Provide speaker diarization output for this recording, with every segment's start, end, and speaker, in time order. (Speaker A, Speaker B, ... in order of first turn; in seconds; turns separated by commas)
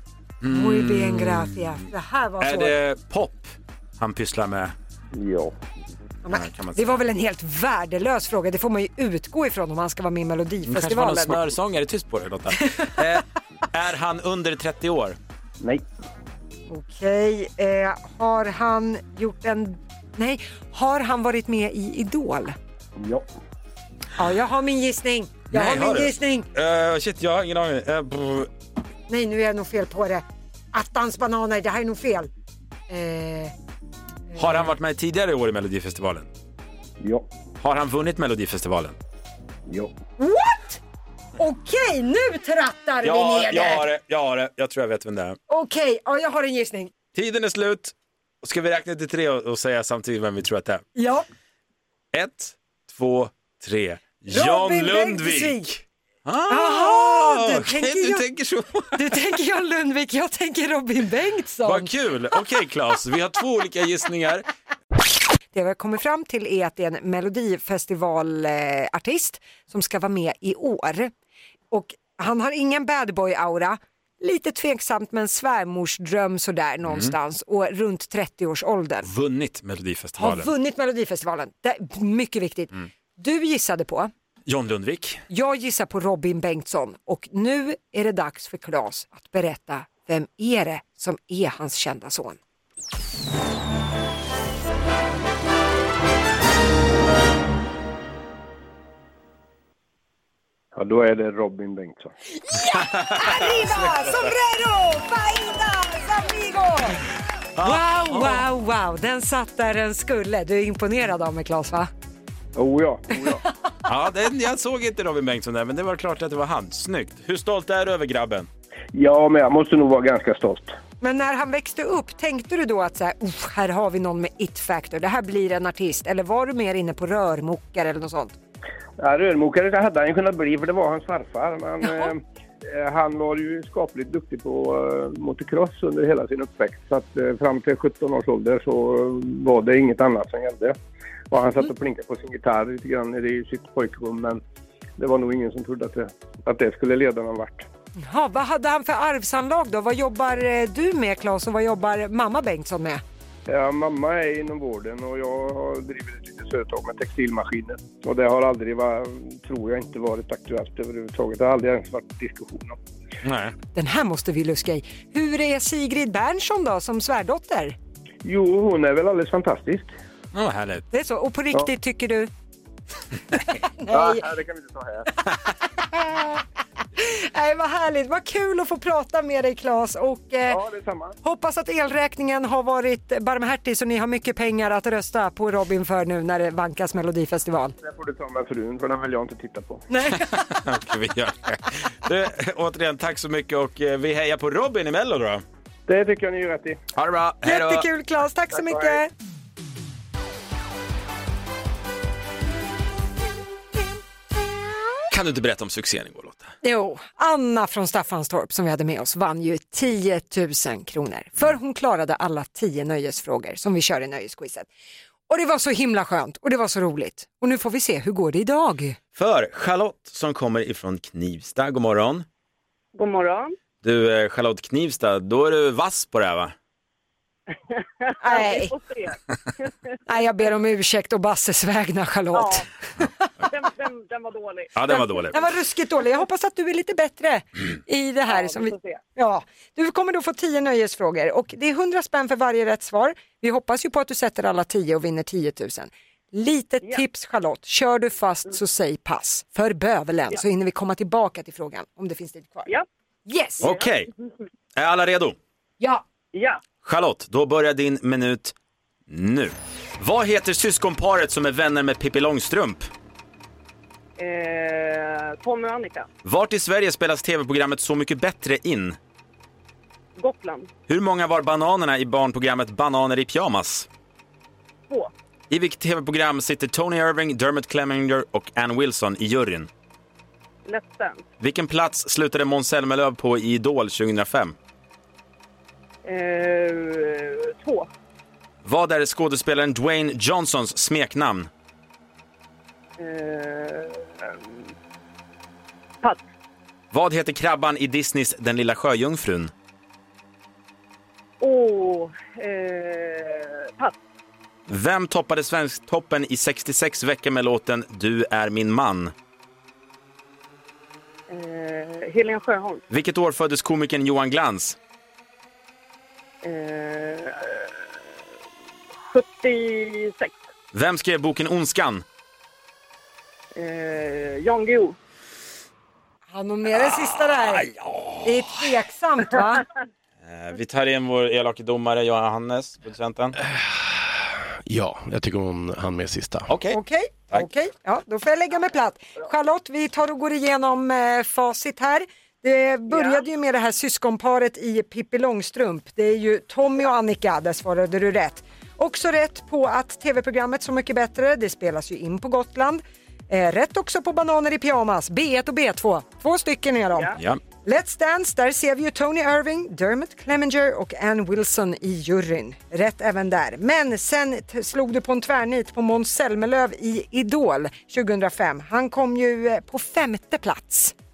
Speaker A: 0.4-1.8, Speaker B: 0.5-2.8, Speaker A: 2.4-4.7, Speaker C: 5.1-5.5, Speaker B: 6.2-11.5, Speaker A: 6.3-7.0, Speaker A: 10.7-15.2, Speaker B: 16.7-22.5, Speaker C: 23.0-23.2, Speaker B: 24.2-26.5, Speaker A: 25.5-28.5, Speaker B: 29.1-32.3, Speaker B: 32.9-33.5, Speaker B: 34.3-34.7, Speaker A: 34.4-36.3, Speaker C: 37.0-37.3, Speaker A: 37.6-39.0, Speaker B: 40.2-40.8, Speaker B: 41.4-43.9, Speaker A: 43.0-45.4, Speaker B: 45.5-46.9, Speaker A: 47.1-50.8, Speaker B: 51.0-51.2, Speaker A: 52.1-59.2, Speaker B: 54.3-55.7, Speaker B: 56.5-58.2, Speaker B: 58.9-61.9, Speaker A: 61.6-64.5, Speaker B: 65.5-71.1, Speaker B: 71.7-79.1, Speaker A: 76.8-77.1, Speaker A: 79.0-80.5, Speaker B: 80.2-84.1, Speaker A: 84.5-85.2, Speaker B: 85.3-92.4, Speaker C: 100.7-102.1, Speaker B: 102.5-107.0, Speaker A: 102.7-104.3, Speaker A: 107.6-108.4, Speaker B: 107.6-111.9, Speaker C: 112.5-113.4, Speaker A: 113.8-118.5, Speaker C: 118.9-120.7, Speaker B: 121.0-128.3, Speaker C: 129.0-132.2, Speaker C: 132.7-140.8, Speaker C: 141.3-144.4, Speaker C: 145.0-147.7, Speaker B: 148.0-153.0, Speaker C: 153.5-162.8, Speaker A: 163.2-163.5, Speaker B: 163.7-167.8, Speaker C: 168.2-169.9, Speaker A: 170.3-170.8, Speaker B: 170.9-172.3, Speaker B: 173.5-174.3, Speaker C: 173.9-175.1, Speaker B: 175.8-176.4, Speaker B: 177.0-180.6, Speaker C: 180.5-181.1, Speaker B: 181.2-187.7, Speaker C: 187.8-189.8, Speaker B: 189.9-190.3, Speaker A: 190.1-195.4, Speaker C: 195.9-196.8, Speaker A: 196.9-197.8, Speaker B: 197.4-199.1, Speaker C: 198.5-199.0, Speaker A: 205.1-206.5, Speaker B: 206.6-214.7, Speaker B: 215.3-219.0, Speaker A: 219.1-222.2, Speaker D: 222.9-223.5, Speaker A: 223.8-226.5, Speaker D: 228.0-229.2, Speaker B: 228.2-228.7, Speaker B: 230.1-232.7, Speaker D: 232.3-232.7, Speaker D: 233.4-234.7, Speaker A: 234.7-235.3, Speaker B: 234.9-252.7, Speaker D: 238.3-239.0, Speaker B: 253.3-253.7, Speaker A: 253.6-254.1, Speaker A: 254.8-255.3, Speaker D: 256.3-256.6, Speaker A: 256.8-258.5, Speaker A: 259.1-262.9, Speaker D: 264.2-266.1, Speaker A: 266.2-269.0, Speaker D: 270.2-270.7, Speaker A: 270.9-273.9, Speaker A: 275.5-279.7, Speaker D: 280.6-281.2, Speaker A: 281.4-284.5, Speaker D: 286.0-287.9, Speaker A: 288.6-291.5, Speaker D: 293.0-294.6, Speaker A: 296.9-299.5, Speaker D: 301.4-303.9, Speaker A: 304.7-309.1, Speaker D: 311.3-312.8, Speaker A: 312.9-314.8, Speaker D: 316.4-317.7, Speaker D: 319.1-320.4, Speaker A: 320.7-322.0, Speaker D: 323.5-324.9, Speaker B: 326.3-327.7, Speaker A: 326.9-328.6, Speaker B: 328.2-329.6, Speaker A: 330.2-333.4, Speaker E: 333.4-336.5, Speaker A: 336.5-336.8, Speaker B: 336.7-370.9